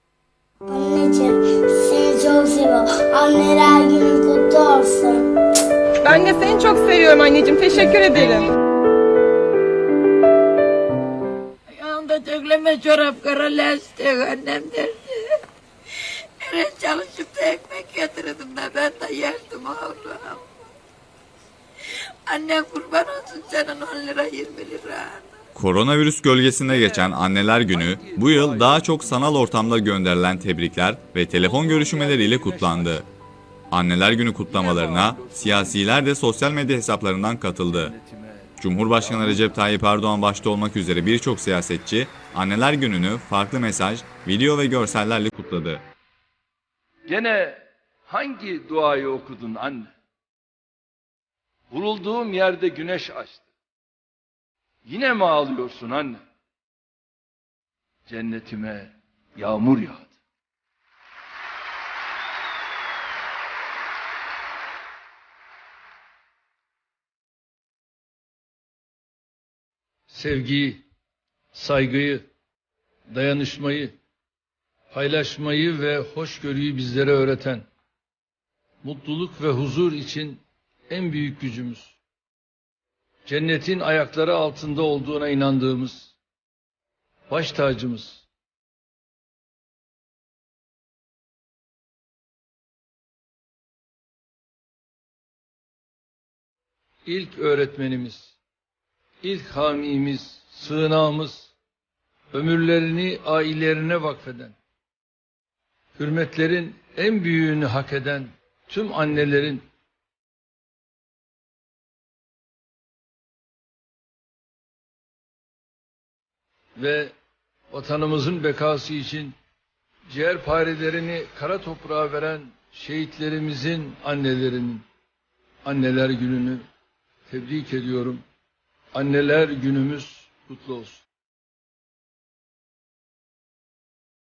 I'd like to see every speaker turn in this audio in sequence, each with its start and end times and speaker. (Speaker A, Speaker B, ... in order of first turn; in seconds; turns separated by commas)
Speaker A: 0.7-5.3, Speaker B: 6.0-8.4, Speaker C: 11.8-15.3, Speaker C: 16.4-20.4, Speaker C: 22.3-25.3, Speaker D: 25.5-33.1, Speaker E: 26.6-29.9, Speaker E: 31.4-33.1, Speaker D: 33.7-37.9, Speaker E: 34.5-36.1, Speaker E: 37.6-39.7, Speaker D: 38.6-45.8, Speaker E: 47.1-49.9, Speaker E: 51.7-53.5, Speaker E: 54.9-56.2, Speaker E: 58.1-60.1, Speaker E: 70.1-70.8, Speaker E: 71.5-72.3, Speaker E: 73.1-74.0, Speaker E: 74.9-77.7, Speaker E: 78.8-82.0, Speaker E: 83.2-86.1, Speaker E: 87.3-88.2, Speaker E: 97.0-98.3, Speaker E: 99.2-101.5, Speaker E: 102.3-104.5, Speaker E: 106.0-109.6, Speaker E: 116.8-117.1, Speaker E: 117.7-119.4, Speaker E: 120.1-124.8, Speaker E: 125.6-126.6, Speaker E: 127.3-128.2, Speaker E: 128.9-131.0